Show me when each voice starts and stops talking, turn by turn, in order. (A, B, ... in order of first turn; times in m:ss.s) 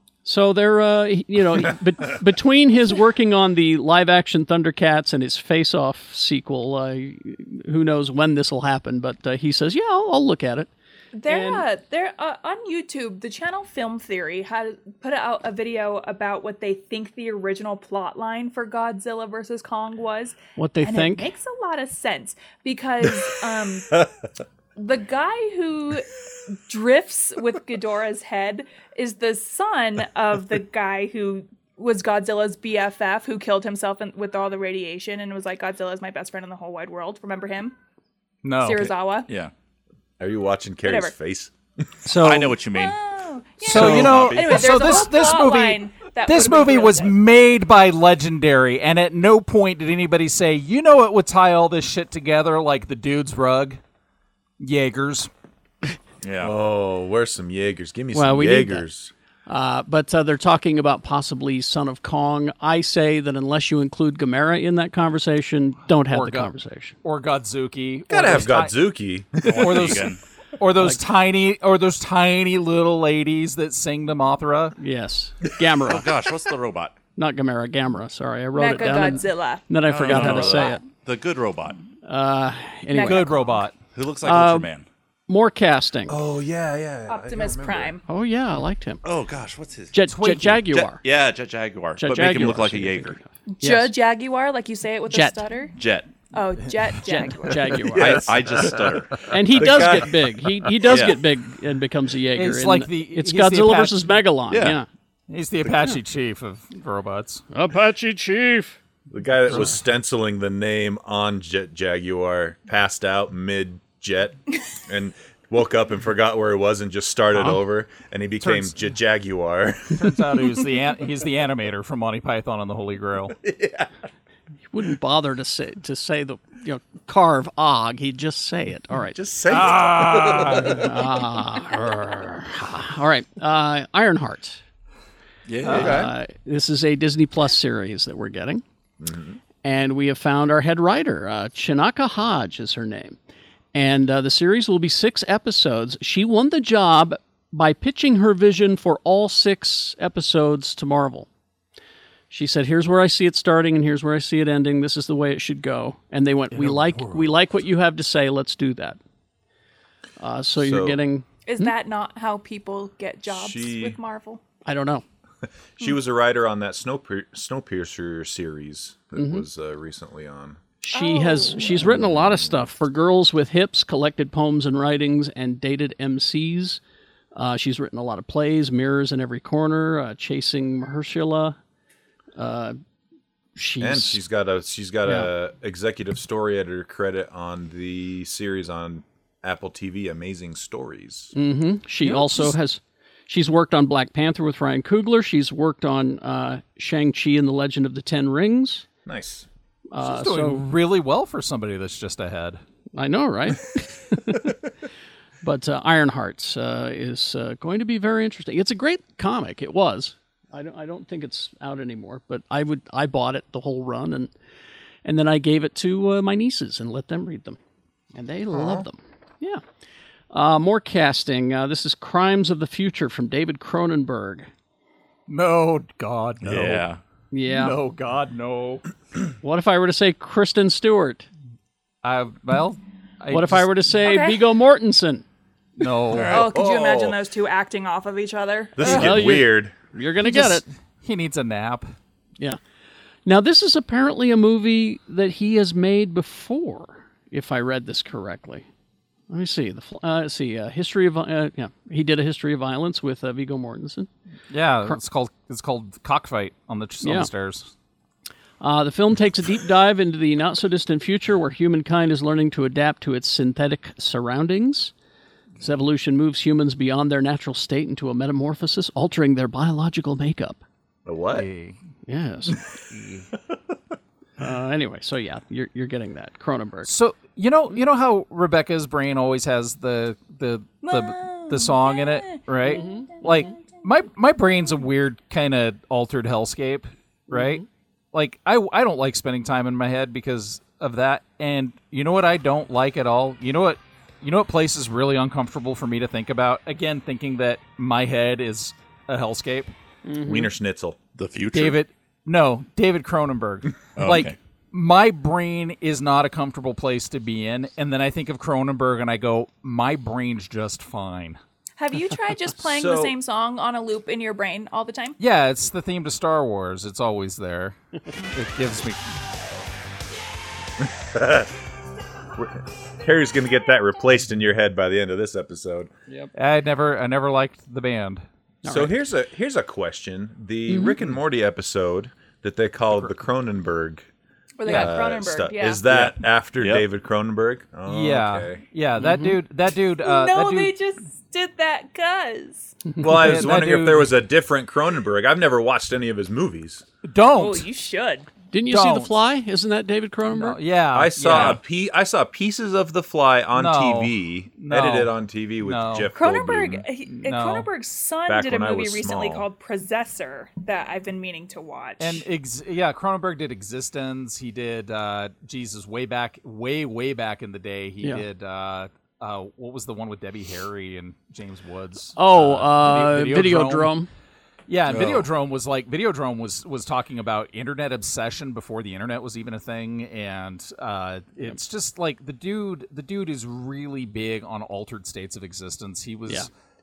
0:00.2-0:10.7 A
0:11.1-0:24.0 B
0:11.3-0:11.6 A
0:20.6-0:21.3 A
0:24.8-0:37.7 B
0:38.4-0:38.9 C
0:38.6-0:39.3 B
0:40.2-0:41.5 D
0:40.8-0:41.1 B
0:42.0-0:42.6 A
0:42.1-0:43.0 E
0:42.7-0:47.2 B
0:43.6-0:44.9 E
0:43.6-0:53.8 C
0:43.7-0:44.2 A
0:54.6-0:55.3 C
0:56.2-0:56.6 E
0:56.4-0:59.1 D
0:58.1-0:58.8 A
0:59.5-1:07.0 A
1:06.1-1:06.5 C
1:07.0-1:08.8 C
1:08.1-1:10.1 D
1:09.4-1:10.2 E
1:09.6-1:10.0 C
1:10.6-1:14.7 C
1:14.8-1:16.1 A
1:15.8-1:16.9 E
1:17.2-1:20.8 A
1:18.6-1:19.7 B
1:19.9-1:21.8 E
1:20.1-1:20.6 C
1:22.0-1:23.3 A
1:22.9-1:23.6 B
1:23.0-1:23.8 C
1:23.8-1:24.8 E
1:24.2-1:24.7 A
1:25.3-1:26.2 A
1:26.1-1:28.0 D
1:27.1-1:28.0 B
1:28.1-1:29.0 A
1:29.0-1:33.2 E
1:29.9-1:31.0 A
1:30.1-1:30.7 C
1:32.0-1:33.9 A
1:33.5-1:35.7 B
1:35.1-1:35.4 A
1:35.7-1:36.1 E
1:36.3-1:37.9 B
1:37.1-1:38.3 A
1:37.9-1:40.5 D
1:38.0-1:40.0 E
1:39.3-1:44.9 A
1:40.9-1:41.2 E
1:42.4-1:44.1 C
1:44.5-1:44.8 E
1:45.3-1:47.4 C
1:47.5-1:48.8 A
1:49.1-2:00.2 D
1:59.9-2:03.4 C
2:03.4-2:03.9 D
2:04.7-2:09.2 A
2:09.1-2:11.0 D
2:09.5-2:10.8 C
2:10.5-2:14.6 A
2:15.5-2:16.1 E
2:15.6-2:18.6 A
2:15.7-2:16.1 D
2:19.0-2:19.4 D
2:19.6-2:23.2 A
2:23.7-2:31.3 A
2:32.3-2:39.0 A
2:36.6-2:37.3 C
2:40.2-2:41.7 A
2:40.6-2:41.0 D
2:41.4-2:44.4 B
2:43.3-2:44.0 D
2:44.6-2:45.0 A
2:45.8-2:50.6 D
2:49.2-2:49.4 A
2:50.8-2:56.8 A
2:50.9-2:51.8 B
2:51.6-2:52.7 D
2:57.3-3:01.6 A
3:02.4-3:02.8 A
3:03.6-3:04.2 A
3:03.8-3:11.3 D
3:11.4-3:18.8 A
3:12.0-3:12.5 C
3:19.0-3:19.5 D
3:19.9-3:20.6 A
3:20.0-3:22.6 C
3:22.9-3:24.6 A
3:25.4-3:34.3 A
3:35.0-3:37.6 A
3:38.1-3:39.6 A
3:38.5-3:38.9 D
3:40.3-3:44.5 A
3:45.3-3:46.8 C
3:46.4-3:47.0 E
3:47.3-3:47.8 A
3:47.5-3:48.8 C
3:49.4-3:51.3 A
3:52.0-3:53.7 C
3:53.3-3:55.2 A
3:54.0-3:54.4 B
3:55.8-3:56.4 C
3:56.1-3:56.5 E
3:56.3-3:59.3 B
3:56.3-3:57.2 D
3:58.8-3:59.7 D
3:58.8-4:00.6 A
4:00.2-4:01.9 C
4:03.3-4:08.6 A
4:09.3-4:14.1 A
4:14.5-4:17.7 C
4:17.0-4:17.3 A
4:18.6-4:24.9 A
4:25.6-4:30.6 A
4:31.1-4:31.5 D
4:31.3-4:31.8 C
4:32.1-4:32.6 A
4:32.9-4:33.3 C
4:34.4-4:36.9 A
4:36.8-4:59.7 C
4:40.8-4:43.8 B
4:42.6-4:43.5 A
4:47.3-4:47.6 A
5:00.1-5:00.5 A
5:00.2-5:01.0 D
5:01.2-5:01.8 E
5:01.5-5:11.4 C
5:04.0-5:04.4 E
5:11.8-5:15.2 B
5:12.6-5:13.1 D
5:15.2-5:17.8 C
5:18.3-5:19.0 C
5:20.8-5:21.5 D
5:22.4-5:25.9 D
5:26.3-5:28.2 C
5:28.6-5:29.0 A
5:28.6-5:34.1 D
5:30.7-5:31.0 A
5:34.6-5:35.9 B
5:34.7-5:34.9 C
5:34.7-5:38.6 D
5:35.9-5:36.8 E
5:37.9-5:40.7 C
5:39.0-5:39.4 A
5:40.0-5:42.8 B
5:43.0-5:46.8 D
5:43.1-5:44.1 C
5:47.0-5:47.7 C
5:47.4-5:48.3 B
5:48.5-5:50.6 A
5:48.7-5:49.1 C
5:50.3-5:51.6 C
5:50.9-5:56.8 D
5:53.6-5:56.1 C
5:56.1-6:02.2 B
5:57.2-5:57.7 C
5:58.3-5:59.5 D
6:02.0-6:13.9 C
6:12.2-6:14.1 A
6:14.7-6:26.5 C
6:14.9-6:15.3 E